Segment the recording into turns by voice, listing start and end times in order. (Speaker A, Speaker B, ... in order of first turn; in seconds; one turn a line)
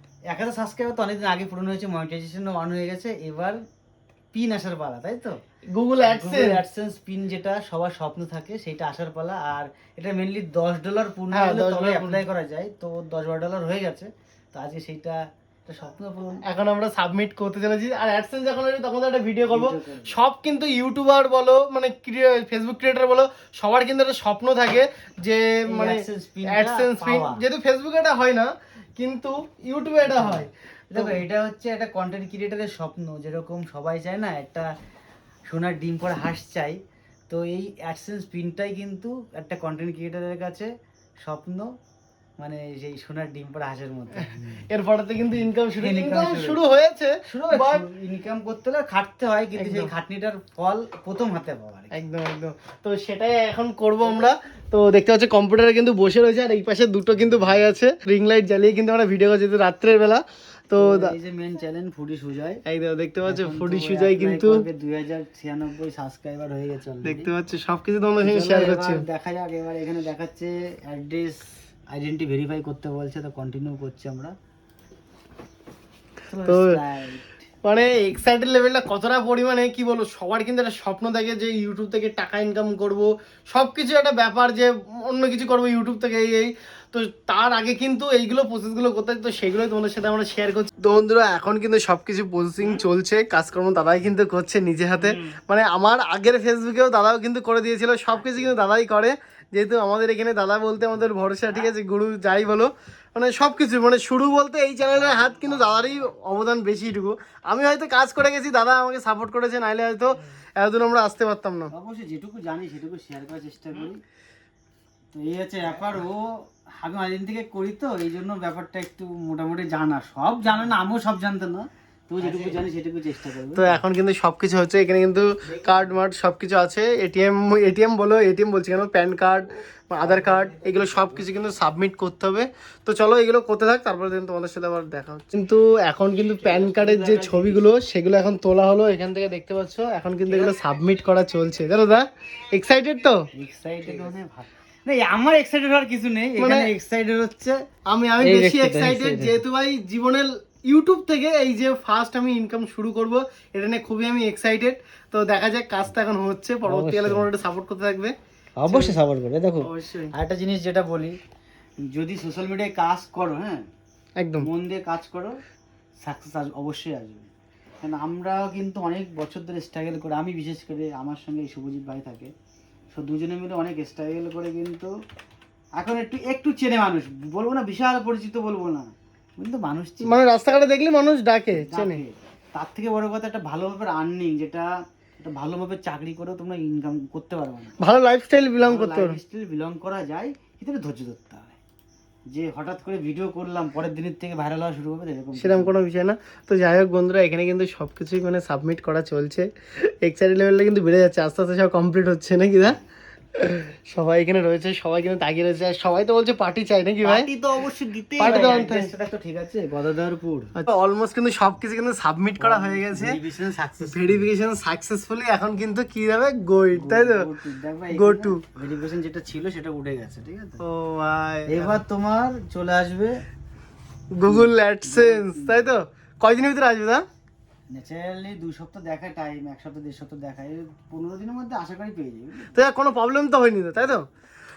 Speaker A: 0.3-3.6
Speaker A: 4.3-5.4
Speaker B: 5.7-6.6
Speaker A: 6.0-16.4
Speaker B: 11.3-12.2
Speaker B: 16.4-31.2
Speaker A: 19.5-20.2
Speaker A: 25.7-27.4
Speaker A: 30.0-34.7
Speaker A: 35.5-36.8
Speaker A: 37.3-40.7
Speaker A: 41.2-41.7
Speaker A: 42.4-44.6
Speaker B: 44.2-47.9
Speaker A: 45.8-46.6
Speaker A: 47.3-52.0
Speaker B: 49.6-49.9
Speaker B: 51.9-61.1
Speaker A: 60.8-62.6
Speaker B: 62.6-64.6
Speaker A: 63.2-67.3
Speaker B: 67.0-69.0
Speaker A: 68.2-74.3
Speaker A: 76.3-77.4
Speaker B: 76.4-76.8
Speaker B: 77.6-111.7
Speaker A: 98.1-98.6
Speaker A: 104.9-106.1
Speaker A: 111.7-114.0
Speaker A: 115.1-123.8
Speaker B: 123.5-143.2
Speaker A: 125.5-125.8
Speaker A: 129.9-131.3
Speaker A: 136.3-137.7
Speaker A: 140.3-140.6
Speaker A: 143.3-147.6
Speaker B: 146.4-146.7
Speaker B: 147.9-158.1
Speaker A: 148.2-149.4
Speaker A: 156.7-157.3
Speaker A: 158.6-161.2
Speaker B: 158.7-159.0
Speaker B: 159.6-160.1
Speaker A: 161.9-163.6
Speaker B: 164.2-164.5
Speaker A: 164.4-165.4
Speaker A: 166.0-167.3
Speaker A: 167.8-172.3
Speaker A: 172.9-174.9
Speaker A: 175.8-180.2
Speaker B: 180.0-182.0
Speaker A: 181.5-187.8
Speaker B: 187.8-189.2
Speaker A: 188.6-191.6
Speaker A: 192.3-195.8
Speaker B: 195.3-202.8
Speaker B: 203.4-207.3
Speaker A: 207.0-210.6
Speaker B: 208.2-208.9
Speaker B: 210.6-213.2
Speaker A: 212.4-214.3
Speaker B: 213.8-217.3
Speaker A: 216.7-220.6
Speaker B: 217.9-218.4
Speaker B: 220.6-221.8
Speaker A: 221.5-223.2
Speaker B: 224.1-227.0
Speaker A: 224.2-225.7
Speaker A: 227.7-232.6
Speaker B: 232.5-234.1